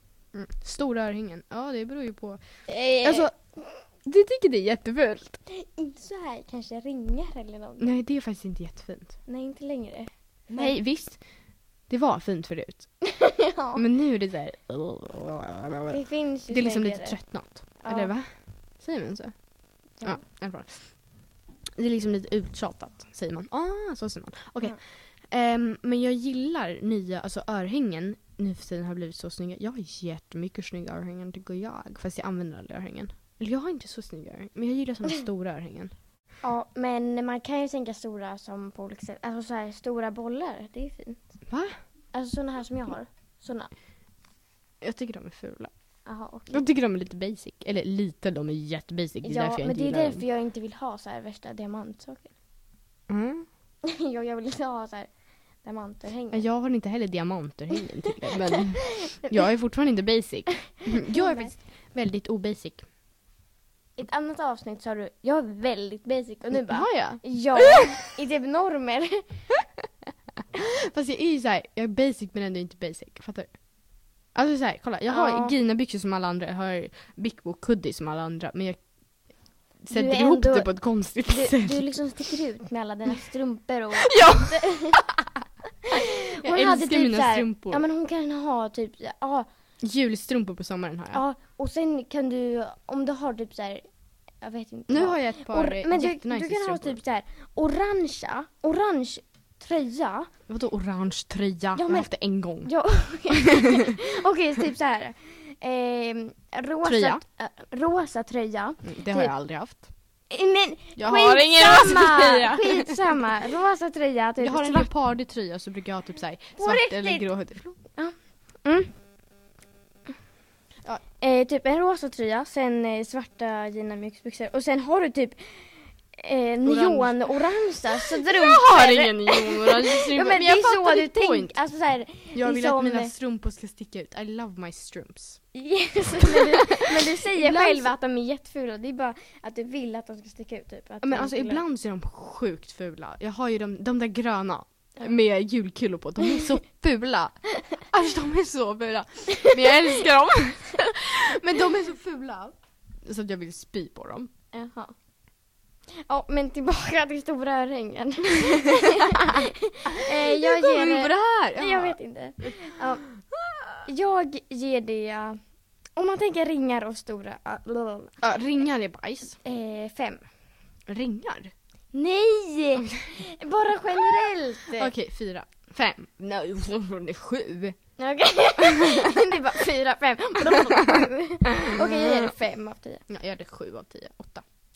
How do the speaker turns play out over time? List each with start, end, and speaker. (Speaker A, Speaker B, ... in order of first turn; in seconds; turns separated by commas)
Speaker A: 0.3-5.4, Speaker B: 2.7-3.3, Speaker B: 5.5-7.9, Speaker A: 7.8-9.2, Speaker B: 9.3-10.8, Speaker A: 10.5-11.2, Speaker A: 11.8-13.1, Speaker B: 13.2-13.8, Speaker A: 13.7-21.2, Speaker B: 15.9-18.1, Speaker A: 21.8-35.9, Speaker B: 36.4-41.4, Speaker A: 41.5-41.8, Speaker B: 42.1-43.7, Speaker A: 44.8-45.7, Speaker B: 46.0-46.6, Speaker A: 46.5-50.2, Speaker B: 49.2-52.3, Speaker A: 53.1-53.5, Speaker B: 53.9-56.5, Speaker A: 56.3-62.9, Speaker B: 58.5-59.4, Speaker B: 60.8-61.6, Speaker B: 64.0-69.5, Speaker A: 66.5-68.0, Speaker A: 70.7-73.7, Speaker A: 74.2-81.8, Speaker B: 75.1-75.5, Speaker B: 79.9-85.1, Speaker A: 84.1-85.3, Speaker B: 85.9-89.5, Speaker A: 85.9-87.9, Speaker A: 89.8-91.2, Speaker B: 91.1-93.9, Speaker B: 94.4-100.3, Speaker A: 94.9-97.0, Speaker A: 100.5-102.8, Speaker B: 101.8-109.3, Speaker A: 106.8-107.2, Speaker A: 108.8-109.9, Speaker B: 110.3-114.9, Speaker A: 111.0-113.2, Speaker A: 114.4-117.8, Speaker B: 116.6-118.9, Speaker B: 121.2-133.1, Speaker A: 126.7-131.6, Speaker A: 132.3-135.5, Speaker B: 135.5-141.6, Speaker A: 136.2-137.9, Speaker A: 141.0-154.3, Speaker B: 154.5-154.9, Speaker B: 156.1-163.2, Speaker A: 160.1-162.8, Speaker A: 163.3-163.8, Speaker B: 163.8-165.4, Speaker B: 166.0-168.2, Speaker A: 168.2-169.4, Speaker B: 169.4-170.3, Speaker A: 170.9-171.5, Speaker B: 171.9-174.9, Speaker A: 172.8-173.1, Speaker A: 174.8-177.8, Speaker B: 178.0-183.0, Speaker A: 180.5-181.1, Speaker A: 181.6-182.3, Speaker A: 183.1-184.4